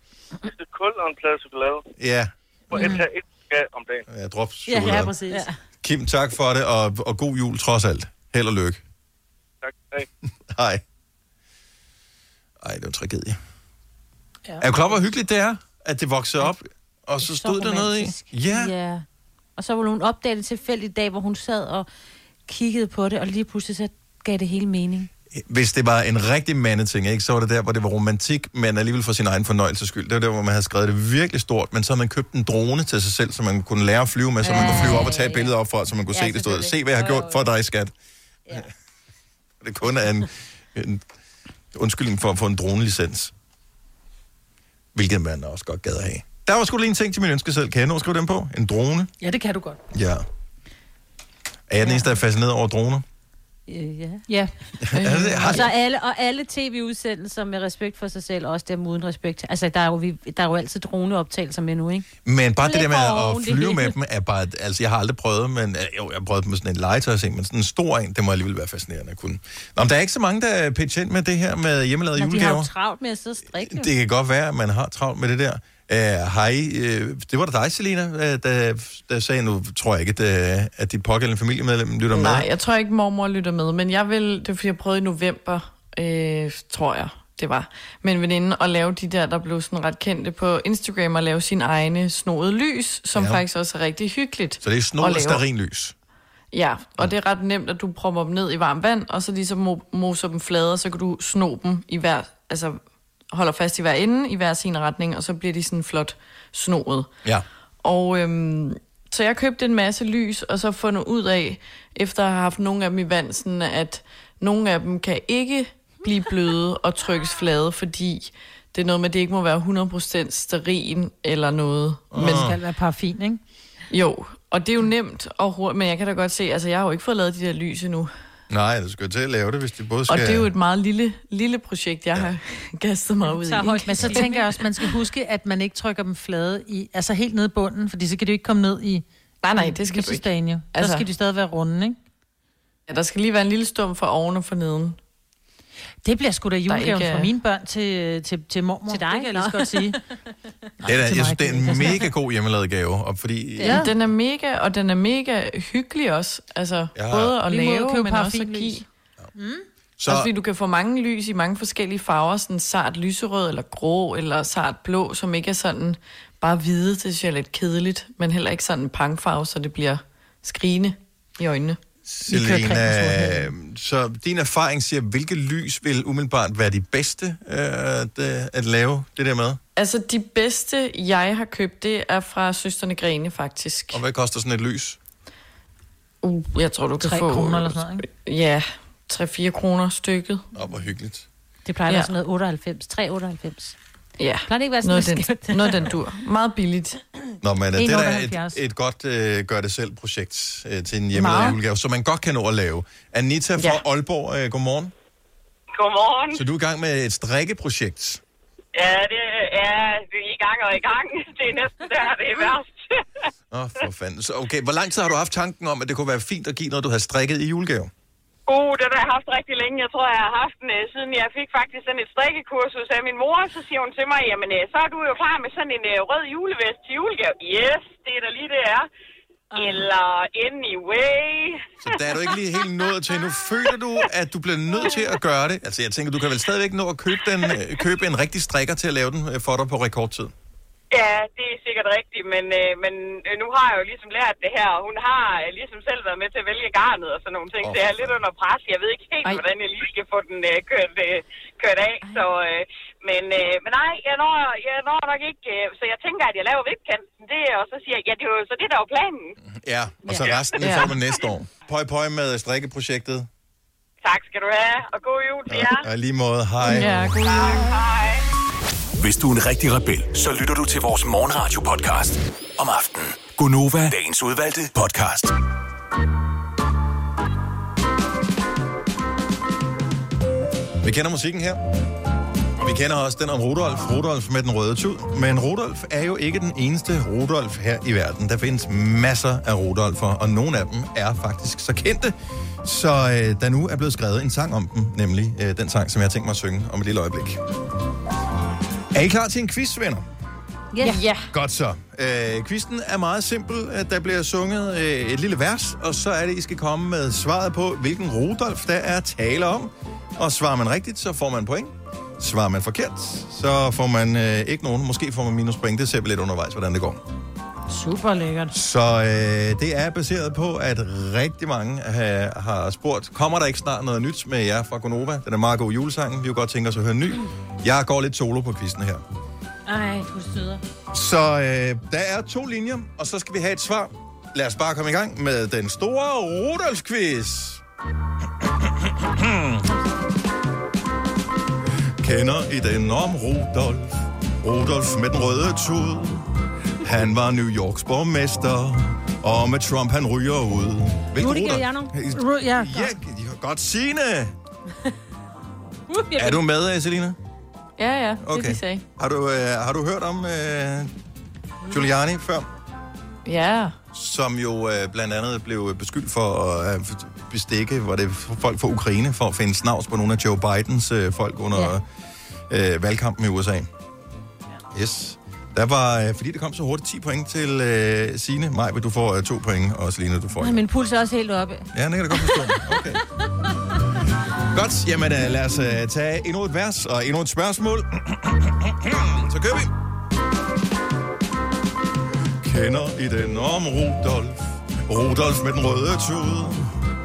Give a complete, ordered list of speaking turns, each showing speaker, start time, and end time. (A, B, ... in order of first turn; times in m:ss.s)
0:00.5-0:01.8 A
0:02.0-0:02.3 B
0:02.7-0:04.1 A
0:02.8-0:03.0 C
0:04.1-0:05.1 B
0:04.7-0:05.5 C
0:05.3-0:05.6 D
0:05.8-0:08.8 B
0:09.6-0:10.1 A
0:10.5-0:10.8 B
0:12.6-0:13.4 B
0:14.6-0:18.7 B
0:17.2-0:19.0 D
0:19.6-0:21.9 D
0:22.5-0:25.1 D
0:25.3-0:37.9 B
0:34.4-0:35.5 D
0:36.1-0:37.5 D
0:39.6-0:41.0 B
0:41.7-0:43.3 B
0:45.0-0:49.1 B
0:49.2-0:49.8 C
0:49.9-0:50.2 B
0:51.7-0:53.0 B
0:51.8-0:52.1 D
0:53.7-0:54.2 D
0:54.9-0:55.7 B
0:54.9-0:55.6 E
0:55.5-1:02.1 D
1:02.3-1:12.7 B
1:02.6-1:04.0 D
1:12.2-1:13.9 D
1:13.6-1:22.5 B
1:22.1-1:35.4 E
1:33.1-1:33.4 B
1:34.6-1:35.9 B
1:36.5-1:42.8 E
1:43.3-1:47.1 E
1:47.8-2:02.5 E
2:02.1-2:02.6 B
2:02.2-2:03.4 C
2:03.9-2:08.1 E
2:08.5-2:10.5 B
2:10.1-2:14.2 E
2:13.5-2:22.0 C
2:13.6-2:14.6 D
2:19.4-2:21.1 E
2:22.9-2:25.0 E
2:26.0-2:30.0 C
2:26.7-2:27.3 E
2:28.9-2:30.0 D
2:30.8-2:32.1 C
2:30.8-2:33.8 B
2:33.6-2:33.9 C
2:33.6-2:38.8 E
2:37.0-2:37.4 B
2:37.4-2:38.8 C
2:39.4-2:39.6 C
2:40.0-2:40.3 B
2:40.1-2:51.8 E
2:52.0-2:59.6 B
2:52.3-2:53.5 C
2:59.8-3:04.0 E
3:03.9-3:05.0 B
3:06.2-3:10.5 E
3:07.0-3:08.0 C
3:10.5-3:11.3 B
3:11.7-3:13.8 D
3:11.9-3:12.1 E
3:14.2-3:17.0 E
3:14.5-3:15.9 D
3:17.4-3:24.9 B
3:17.8-3:18.6 C
3:21.1-3:21.6 E
3:23.6-3:23.8 E
3:25.8-3:26.4 F
3:26.3-3:28.2 B
3:28.7-3:33.0 F
3:33.5-3:37.9 B
3:38.5-3:48.9 F
3:49.6-3:51.7 F
3:51.8-4:00.3 B
4:00.9-4:19.4 F
4:07.6-4:08.2 B
4:19.5-4:23.3 B
4:20.6-4:20.9 E
4:24.0-4:25.9 F
4:25.5-4:27.3 B
4:26.6-4:27.8 E
4:27.2-4:28.3 F
4:29.0-4:35.3 G
4:40.8-4:41.6 B
4:42.6-4:57.4 B
4:58.9-5:00.0 B
5:00.7-5:01.0 D
5:00.8-5:01.2 E
5:01.3-5:17.0 B
5:17.7-5:18.5 C
5:18.5-5:29.0 B
5:29.7-5:30.6 D
5:30.9-5:37.6 B
5:38.4-5:39.7 B
5:39.6-5:40.1 D
5:42.0-5:54.4 B
5:51.2-5:51.9 D
5:52.1-5:52.9 C
5:55.9-5:56.4 D
5:56.2-5:57.2 B
5:57.8-5:58.8 E
5:58.2-6:00.9 B
6:01.7-6:02.5 B
6:03.2-6:03.8 E
6:03.9-6:11.8 B
6:12.5-6:13.7 B
6:14.7-6:20.6 B
6:20.4-6:22.5 D
6:21.7-6:23.0 B
6:24.5-6:29.7 B
6:32.4-6:36.8 B